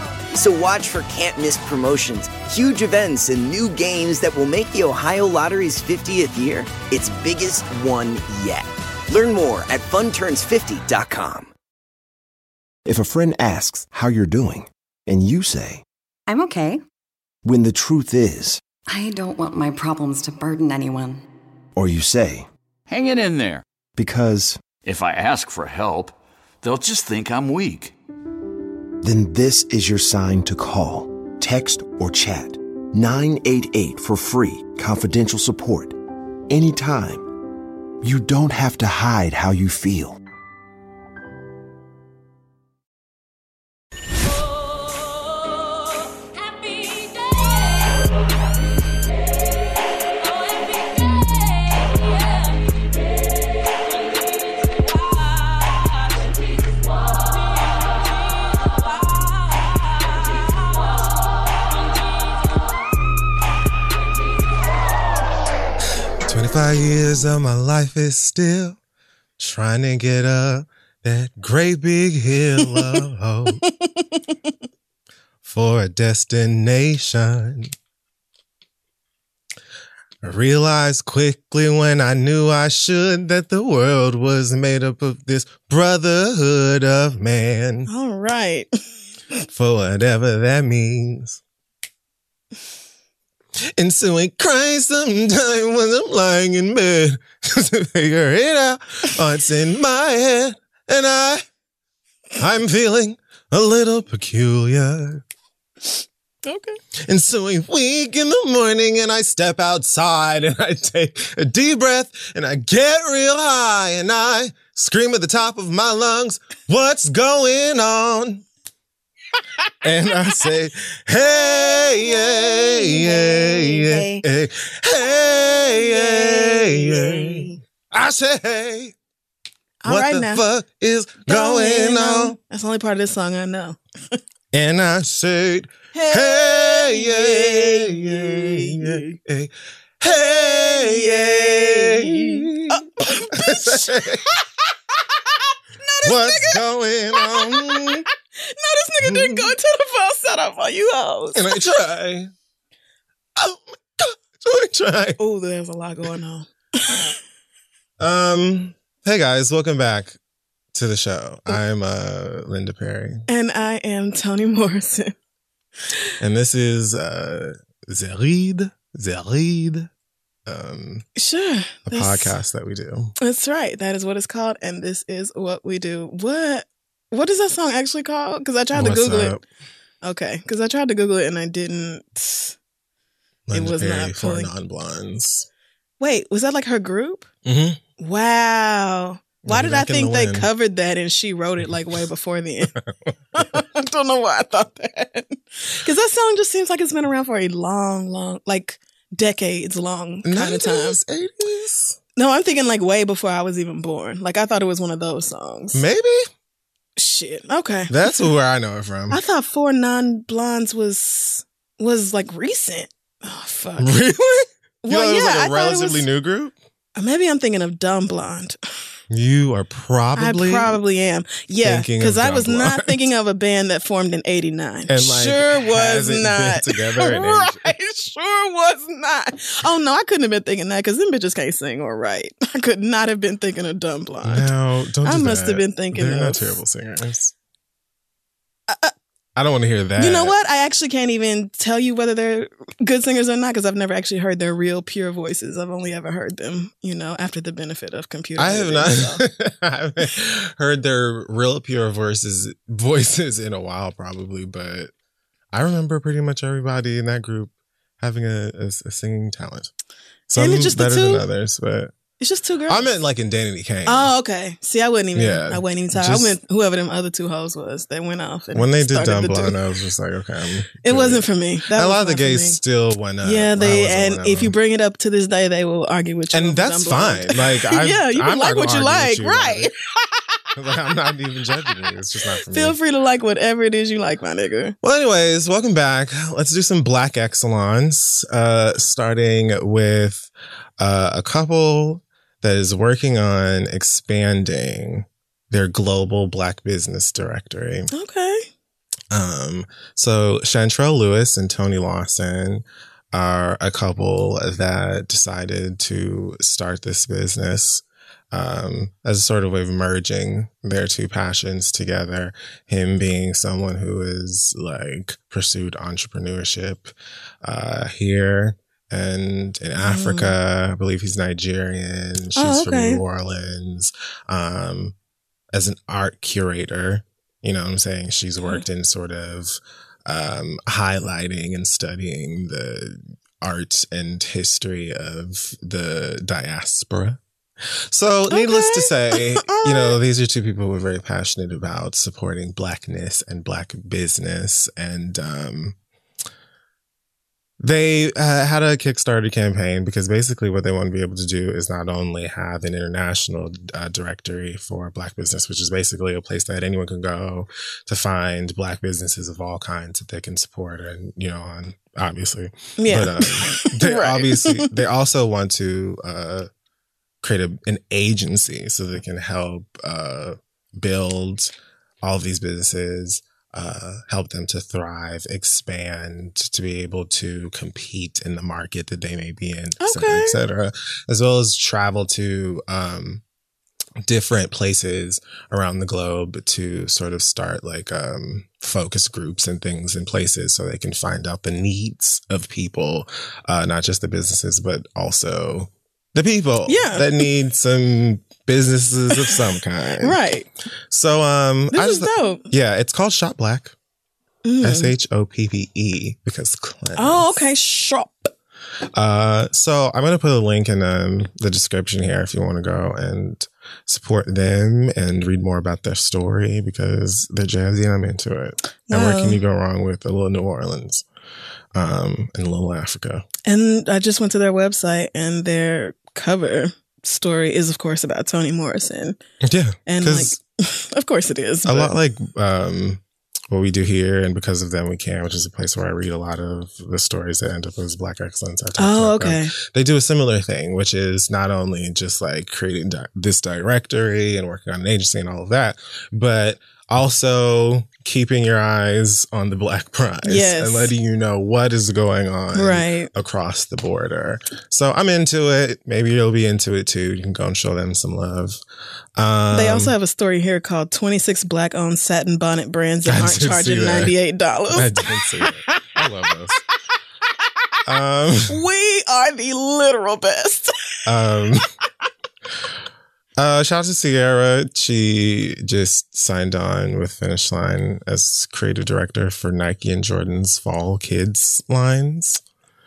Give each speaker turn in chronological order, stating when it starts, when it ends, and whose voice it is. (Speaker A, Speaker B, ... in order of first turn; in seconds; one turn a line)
Speaker A: 0.3-11.5
Speaker B: 12.8-15.8
Speaker C: 16.3-16.8
Speaker B: 17.4-18.6
Speaker C: 18.9-21.2
Speaker B: 21.8-22.5
Speaker D: 22.9-23.6
Speaker B: 24.0-24.7
Speaker D: 24.8-27.9
Speaker B: 29.0-36.0
Speaker B: 36.5-37.2
Speaker B: 38.0-40.2
Speaker E: 66.2-68.8
Speaker E: 69.4-73.6
Speaker F: 72.6-73.0
Speaker F: 73.6-74.5
Speaker E: 75.4-77.7
Speaker E: 80.2-87.9
Speaker F: 87.9-88.7
Speaker E: 89.5-91.4
Speaker E: 93.8-101.4
Speaker E: 102.4-105.2
Speaker F: 106.4-106.8
Speaker E: 107.0-118.4
Speaker E: 119.8-128.9
Speaker F: 121.7-124.2
Speaker F: 125.2-127.6
Speaker F: 129.8-130.4
Speaker E: 129.8-132.4
Speaker F: 131.2-134.2
Speaker E: 134.5-144.2
Speaker F: 135.9-139.2
Speaker F: 140.0-144.0
Speaker F: 145.8-146.6
Speaker E: 146.0-148.0
Speaker F: 147.2-147.9
Speaker F: 148.4-151.6
Speaker E: 149.0-149.5
Speaker E: 151.3-152.3
Speaker E: 153.3-155.2
Speaker F: 155.2-157.1
Speaker E: 158.0-160.2
Speaker E: 160.7-163.2
Speaker F: 163.3-165.1
Speaker E: 166.2-169.9
Speaker E: 170.4-171.0
Speaker F: 171.2-172.3
Speaker E: 171.9-173.1
Speaker F: 173.2-179.4
Speaker E: 178.7-179.4
Speaker F: 180.0-182.6
Speaker E: 183.5-185.5
Speaker F: 183.5-184.5
Speaker F: 186.0-187.2
Speaker E: 187.4-187.8
Speaker F: 188.0-192.7
Speaker E: 189.4-190.5
Speaker E: 192.8-193.6
Speaker F: 193.4-201.0
Speaker E: 200.2-202.0
Speaker F: 202.2-205.8
Speaker E: 205.7-206.3
Speaker F: 207.0-207.9
Speaker E: 207.9-209.2
Speaker F: 209.1-213.9
Speaker E: 213.8-216.5
Speaker F: 214.8-216.0
Speaker F: 216.9-218.6
Speaker E: 219.1-220.8
Speaker F: 220.2-234.5
Speaker E: 221.6-223.1
Speaker E: 224.9-227.7
Speaker E: 234.2-237.3
Speaker F: 235.0-236.5
Speaker E: 239.3-240.3
Speaker F: 240.0-249.2
Speaker E: 248.4-254.9
Speaker E: 255.5-259.7
Speaker E: 260.3-261.9
Speaker F: 260.4-261.2
Speaker F: 262.2-262.9
Speaker E: 262.7-264.1
Speaker F: 263.9-269.5
Speaker E: 265.1-266.4
Speaker E: 268.5-274.5
Speaker F: 270.8-272.6
Speaker F: 273.2-280.1
Speaker E: 276.3-279.7
Speaker E: 280.6-282.8
Speaker F: 282.5-284.7
Speaker E: 284.8-297.9
Speaker F: 297.9-298.5
Speaker E: 299.1-324.9
Speaker F: 319.8-320.3
Speaker F: 322.4-323.0
Speaker E: 325.5-337.2
Speaker E: 337.9-345.8
Speaker F: 338.3-340.0
Speaker E: 347.6-366.5
Speaker F: 362.8-364.7
Speaker E: 367.2-383.2
Speaker F: 379.8-380.4
Speaker E: 384.0-400.2
Speaker F: 396.7-397.3
Speaker F: 400.0-400.5
Speaker E: 400.9-403.7
Speaker F: 401.7-402.4
Speaker F: 404.4-404.9
Speaker E: 404.6-407.3
Speaker F: 407.0-408.3
Speaker E: 408.9-421.0
Speaker F: 418.9-419.4
Speaker E: 421.7-423.2
Speaker F: 423.4-429.2
Speaker E: 429.4-430.4
Speaker F: 429.9-431.9
Speaker E: 431.6-458.6
Speaker F: 438.8-439.5
Speaker F: 450.2-450.9
Speaker F: 452.5-453.1
Speaker E: 459.1-459.9
Speaker F: 459.5-464.9
Speaker E: 463.1-464.1
Speaker E: 464.7-466.6
Speaker F: 465.4-465.7
Speaker E: 467.9-468.6
Speaker F: 468.5-470.7
Speaker E: 471.1-471.7
Speaker E: 473.4-482.4